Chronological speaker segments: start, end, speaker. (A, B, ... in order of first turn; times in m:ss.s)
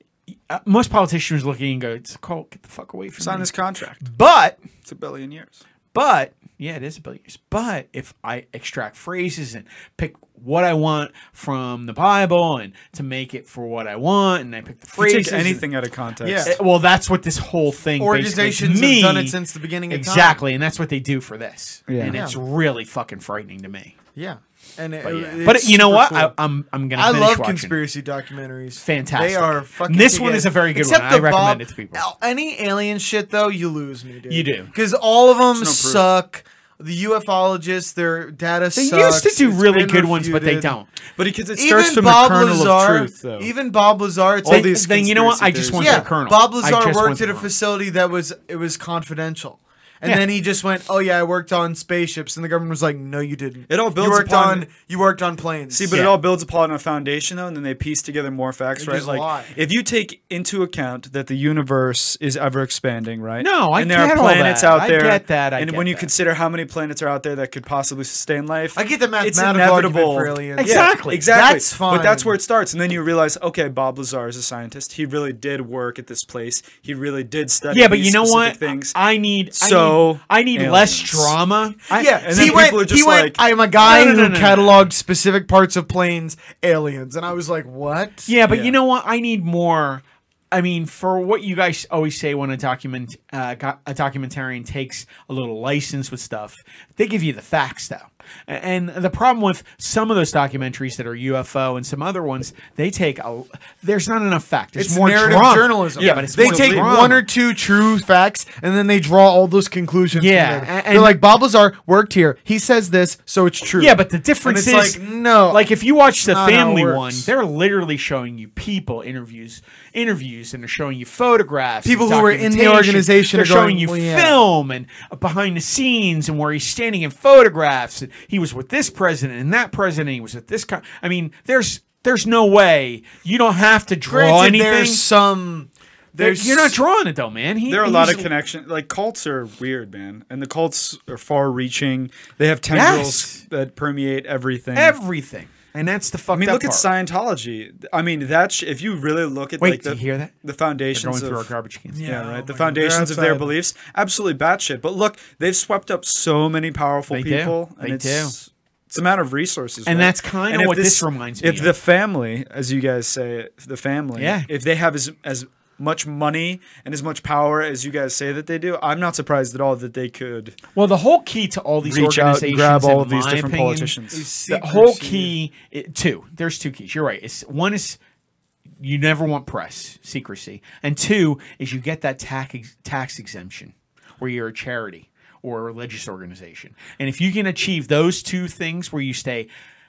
0:00.5-0:03.5 A
0:03.2-0:04.0 B
0:04.0-0:04.6 A
0:04.9-0:05.6 B
0:05.9-0:15.6 A
0:15.0-0:16.6 B
0:16.2-0:16.6 C
0:16.4-0:19.4 A
0:18.0-0:20.4 C
0:19.9-0:24.0 A
0:21.9-0:22.2 B
0:22.1-0:22.4 C
0:24.2-0:26.4 C
0:25.0-0:27.8 A
0:27.0-0:40.8 C
0:28.8-0:32.1 A
0:34.3-0:34.7 A
0:35.5-0:36.0 B
0:38.8-0:40.9 A
0:41.2-0:43.5 B
0:41.6-0:44.8 C
0:44.4-0:46.1 B
0:44.5-0:47.5 A
0:45.8-0:55.9 C
0:53.7-0:54.7 B
0:55.7-1:19.0 B
0:58.8-0:59.5 C
1:03.4-1:06.1 A
1:08.8-1:12.4 C
1:10.6-1:11.3 A
1:17.7-1:22.7 A
1:19.5-1:21.4 B
1:21.9-1:28.3 C
1:21.9-1:23.4 B
1:23.8-1:24.7 A
1:28.3-1:47.2 A
1:28.5-1:28.8 B
1:44.8-1:55.7 C
1:46.0-1:47.2 B
1:50.1-1:51.2 A
1:53.8-2:15.0 A
1:56.2-1:57.3 C
2:01.8-2:04.4 C
2:14.1-2:16.8 C
2:16.2-2:18.3 A
2:17.7-2:25.0 B
2:22.7-2:23.4 A
2:24.8-2:26.9 A
2:26.3-2:31.5 B
2:29.6-2:30.3 A
2:30.9-2:32.0 A
2:31.9-2:33.5 C
2:32.0-2:50.6 B
2:37.1-2:38.4 A
2:39.9-2:41.7 A
2:44.2-2:44.5 A
2:50.8-2:54.0 A
2:51.8-2:54.3 B
2:54.1-2:55.3 C
2:54.5-2:58.0 A
2:58.8-3:09.5 A